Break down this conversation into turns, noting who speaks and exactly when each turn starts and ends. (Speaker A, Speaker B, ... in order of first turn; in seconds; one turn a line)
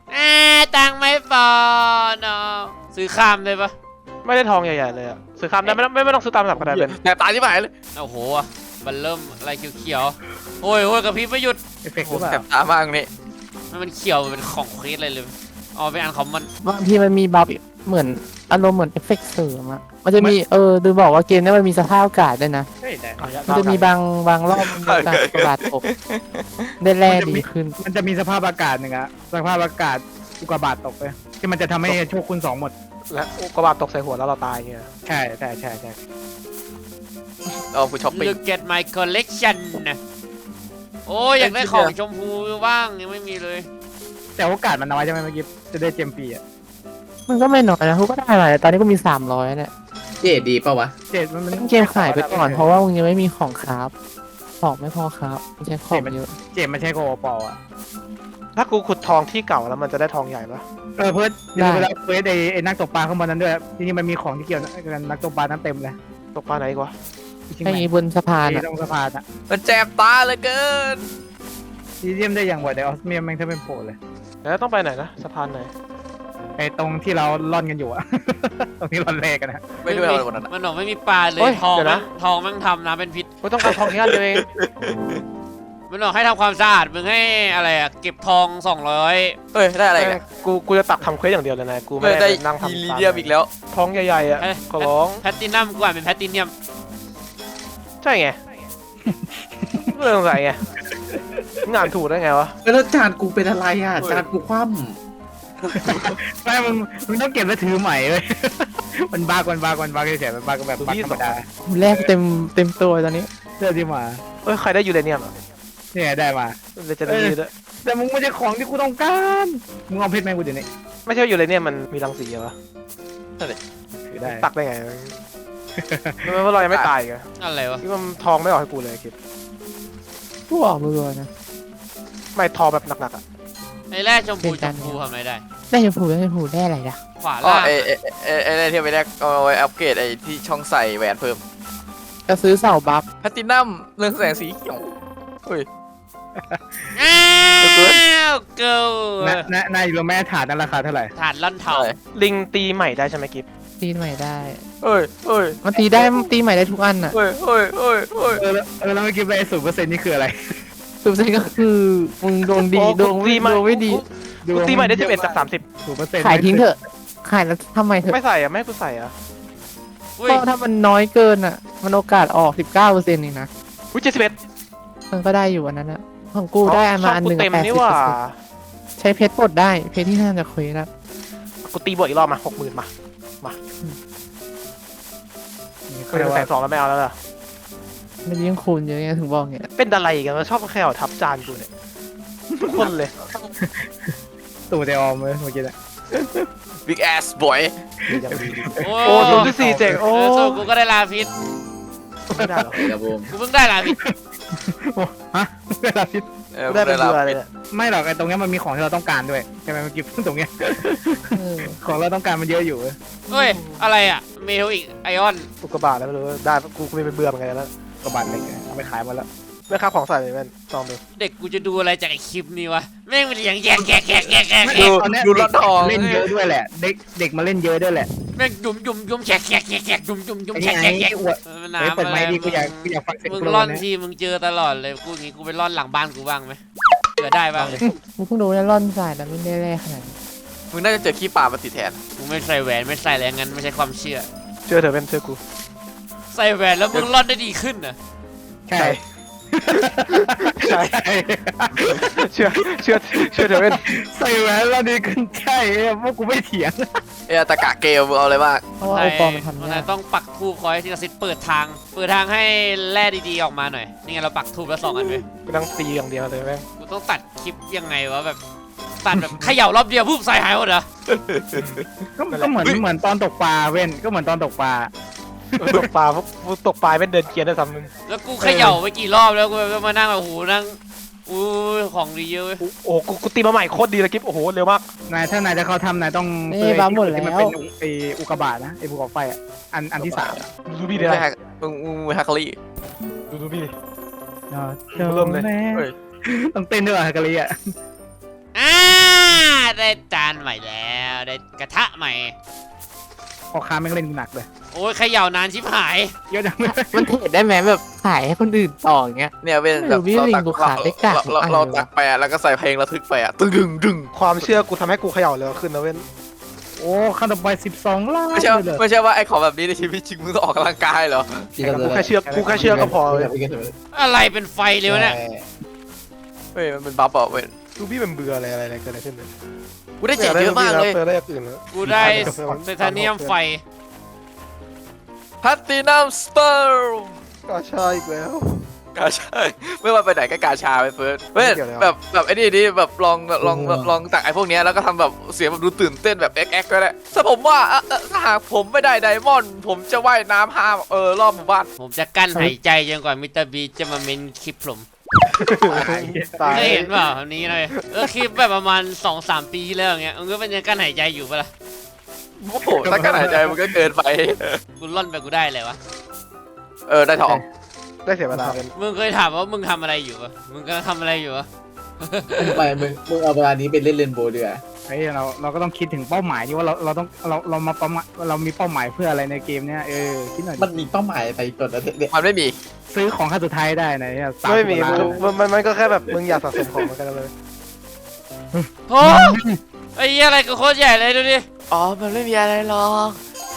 Speaker A: 0.1-3.7
Speaker B: 4.2-7.0
Speaker C: 6.5-7.7
Speaker A: 8.0-11.6
Speaker D: 11.8-12.4
Speaker C: 12.0-13.1
Speaker A: 13.7-16.5
Speaker E: 16.6-22.7
Speaker D: 22.8-23.9
Speaker B: 23.2-23.9
Speaker E: 23.5-25.8
Speaker C: 24.6-26.8
Speaker E: 26.8-27.8
Speaker D: 27.0-32.7
Speaker B: 33.1-34.9
Speaker D: 35.0-36.0
Speaker C: 37.7-38.4
Speaker A: 38.1-40.0
Speaker A: 41.1-43.6
Speaker C: 41.4-41.9
Speaker D: 44.4-46.4
Speaker E: 47.3-49.7
Speaker F: 50.2-50.9
Speaker D: 51.1-52.7
Speaker E: 51.5-53.9
Speaker E: 54.6-56.3
Speaker D: 55.9-57.6
Speaker B: 58.5-60.6
Speaker D: 61.0-66.0
Speaker E: 61.5-61.9
Speaker B: 66.3-66.9
Speaker D: 67.5-67.9
Speaker E: 67.6-68.6
Speaker D: 68.4-69.2
Speaker C: 69.5-71.0
Speaker D: 72.0-74.0
Speaker B: 74.4-75.7
Speaker D: 76.6-79.6
Speaker C: 79.8-80.5
Speaker A: 79.9-83.3
Speaker B: 81.4-82.0
Speaker B: 83.4-84.4
Speaker C: 83.6-85.2
Speaker A: 85.9-89.4
Speaker C: 89.5-90.2
Speaker B: 89.9-95.2
Speaker C: 92.0-93.5
Speaker A: 94.4-96.5
Speaker B: 98.0-98.4
Speaker D: 99.0-99.9
Speaker B: 99.9-100.6
Speaker B: 101.7-102.5
Speaker F: 102.6-105.0
Speaker C: 104.0-104.2
Speaker D: 105.7-112.1
Speaker C: 105.9-106.1
Speaker B: 110.8-111.4
Speaker E: 111.7-113.3
Speaker D: 113.6-114.2
Speaker B: 114.4-115.3
Speaker D: 115.9-120.7
Speaker B: 116.8-117.5
Speaker B: 121.0-122.5
Speaker D: 124.1-124.5
Speaker B: 124.2-125.2
Speaker D: 125.8-126.3
Speaker B: 126.2-127.2
Speaker C: 126.6-126.9
Speaker A: 127.4-127.8
Speaker B: 127.8-129.1
Speaker E: 130.5-131.3
Speaker B: 132.3-133.2
Speaker A: 133.9-135.4
Speaker E: 134.4-135.0
Speaker E: 135.7-137.0
Speaker A: 137.2-137.9
Speaker C: 137.4-141.4
Speaker E: 142.2-143.0
Speaker C: 143.2-144.9
Speaker D: 146.4-146.6
Speaker A: 146.9-149.5
Speaker C: 147.6-148.0
Speaker D: 149.2-151.1
Speaker A: 151.2-151.9
Speaker C: 151.7-152.0
Speaker B: 152.1-153.4
Speaker E: 153.8-154.6
Speaker C: 154.8-156.3
Speaker E: 155.6-157.2
Speaker C: 157.1-158.4
Speaker D: 158.3-160.5
Speaker E: 161.0-164.0
Speaker B: 162.7-165.6
Speaker D: 164.4-166.7
Speaker E: 166.2-168.2
Speaker B: 168.1-169.1
Speaker A: 170.2-170.4
Speaker E: 170.2-173.5
Speaker B: 173.9-174.4
Speaker E: 175.1-178.2
Speaker B: 176.6-178.3
Speaker E: 179.0-180.9
Speaker B: 181.6-183.6
Speaker D: 185.9-186.5
Speaker B: 186.1-187.2
Speaker E: 188.2-189.7
Speaker B: 189.8-191.7
Speaker B: 192.6-193.1
Speaker D: 193.6-194.1
Speaker D: 194.7-196.4
Speaker C: 196.8-197.7
Speaker D: 198.1-200.0
Speaker B: 198.1-200.6
Speaker A: 198.8-201.3
Speaker B: 202.3-202.8
Speaker D: 202.4-202.8
Speaker F: 202.7-203.3
Speaker A: 203.3-204.0
Speaker D: 203.9-206.2
Speaker C: 206.5-207.4
Speaker B: 206.7-207.5
Speaker D: 207.7-212.9
Speaker E: 211.3-211.8
Speaker A: 213.3-215.5
Speaker B: 215.6-217.7
Speaker D: 218.0-219.3
Speaker B: 219.7-221.0
Speaker A: 221.2-224.9
Speaker D: 224.6-228.1
Speaker C: 224.7-226.3
Speaker A: 228.3-236.6
Speaker D: 230.5-233.8
Speaker A: 237.2-237.8
Speaker E: 237.9-240.2
Speaker C: 240.7-242.0
Speaker A: 242.2-244.3
Speaker B: 244.7-245.4
Speaker A: 246.3-247.9
Speaker D: 248.7-249.0
Speaker D: 249.5-257.0
Speaker B: 249.7-251.0
Speaker B: 252.3-253.9
Speaker C: 257.3-258.7
Speaker E: 258.8-259.9
Speaker A: 258.9-265.2
Speaker B: 265.5-266.6
Speaker A: 266.8-268.4
Speaker A: 269.0-270.9
Speaker D: 269.2-269.5
Speaker C: 271.1-272.0
Speaker D: 272.2-274.9
Speaker D: 275.6-275.9
Speaker B: 275.6-277.9
Speaker A: 278.1-282.6
Speaker D: 278.4-278.8
Speaker B: 282.6-284.8
Speaker D: 285.1-290.5
Speaker E: 286.5-287.6
Speaker C: 290.0-290.4
Speaker B: 290.6-291.2
Speaker C: 290.9-292.6
Speaker B: 293.3-293.7
Speaker D: 294.5-297.7
Speaker B: 294.9-295.5
Speaker A: 298.5-302.3
Speaker D: 303.5-304.5
Speaker A: 304.7-306.1
Speaker D: 306.3-307.1
Speaker E: 306.7-311.9
Speaker C: 309.4-314.5
Speaker B: 314.1-316.1
Speaker D: 316.8-318.8
Speaker C: 318.3-321.6
Speaker F: 321.6-323.7
Speaker B: 321.6-323.3
Speaker D: 322.2-322.9
Speaker A: 323.9-325.2
Speaker F: 324.9-325.5
Speaker C: 326.5-327.5
Speaker B: 327.8-329.3
Speaker C: 330.0-331.0
Speaker B: 330.1-333.4
Speaker A: 331.7-333.6
Speaker D: 331.8-332.6
Speaker C: 335.4-337.2
Speaker B: 337.5-338.7
Speaker C: 338.9-351.7
Speaker B: 341.4-341.9
Speaker D: 343.4-343.9
Speaker A: 351.8-354.9
Speaker B: 355.3-356.9
Speaker D: 355.4-356.8
Speaker A: 356.4-361.5
Speaker C: 362.4-364.6
Speaker D: 362.7-363.6
Speaker A: 364.8-365.8
Speaker C: 366.9-367.4
Speaker B: 368.0-368.7
Speaker D: 368.3-368.6
Speaker A: 368.7-371.5
Speaker A: 372.0-372.6
Speaker F: 372.4-374.6
Speaker D: 374.9-380.7
Speaker F: 380.6-382.1
Speaker C: 382.1-382.6
Speaker D: 382.9-385.2
Speaker B: 384.4-387.3
Speaker F: 384.9-385.3
Speaker D: 388.5-389.6
Speaker A: 388.9-389.4
Speaker A: 389.9-391.4
Speaker C: 391.7-393.2